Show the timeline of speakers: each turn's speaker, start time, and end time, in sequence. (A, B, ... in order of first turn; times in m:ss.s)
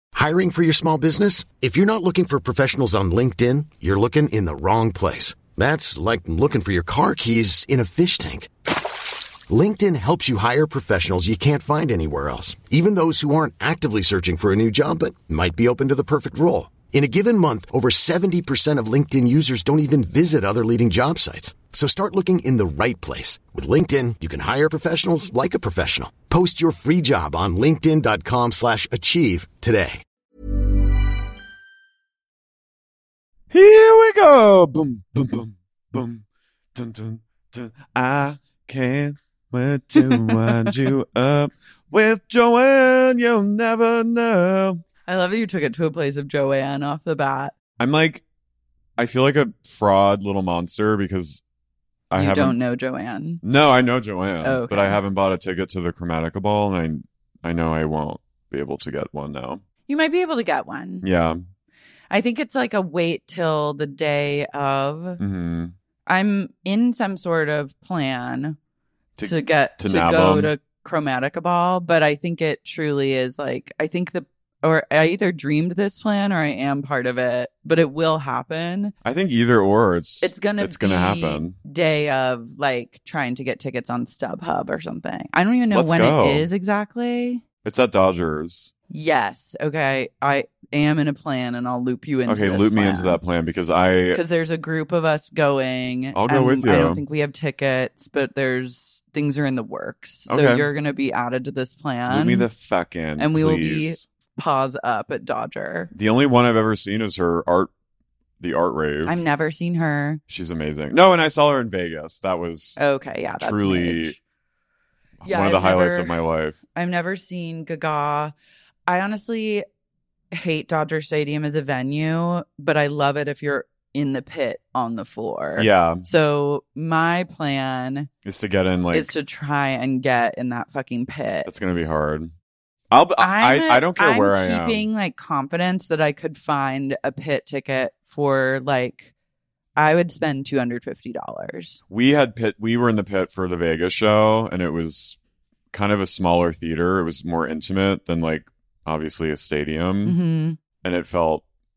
0:00.1-0:08.5 A
0:09.5-0:30.0 A
0:33.5-0:36.2 B
0:36.8-0:44.8 B
0:40.0-0:40.9 C
0:45.1-0:47.5 C
0:47.8-0:48.2 B
0:49.0-0:51.4 B
0:52.1-0:52.6 B
0:52.2-0:53.4 C
0:53.4-0:59.6 B
0:54.4-0:55.0 C
0:59.9-1:01.1 C
1:01.0-1:01.4 B
1:02.1-1:05.2 C
1:05.2-1:05.8 B
1:06.1-1:08.6 C
1:09.2-1:10.5 B
1:09.2-1:18.9 C
1:19.0-1:21.6 B
1:20.2-1:27.4 C
1:25.7-1:26.5 B
1:27.6-1:28.7 B
1:28.9-1:33.2 C
1:32.3-1:34.2 B
1:34.1-1:42.5 C
1:36.1-1:37.0 B
1:40.3-1:40.7 B
1:42.1-1:44.0 B
1:43.2-1:45.9 C
1:45.9-1:47.7 B
1:48.4-1:49.2 B
1:49.1-1:50.2 C
1:50.3-1:52.8 B
1:52.8-1:54.2 C
1:53.4-1:54.2 B
1:55.2-1:56.6 B
1:55.3-1:56.1 C
1:56.8-1:58.3 C
1:58.9-1:59.6 C
2:00.3-2:08.1 C
2:05.6-2:06.1 B
2:08.2-2:09.1 B
2:08.9-2:11.5 C
2:11.5-2:12.3 B
2:12.9-2:14.9 B
2:13.2-2:19.1 C
2:19.8-2:21.8 C
2:21.9-2:25.2 B
2:25.7-2:30.2 B
2:30.0-2:30.6 C
2:30.8-2:31.4 B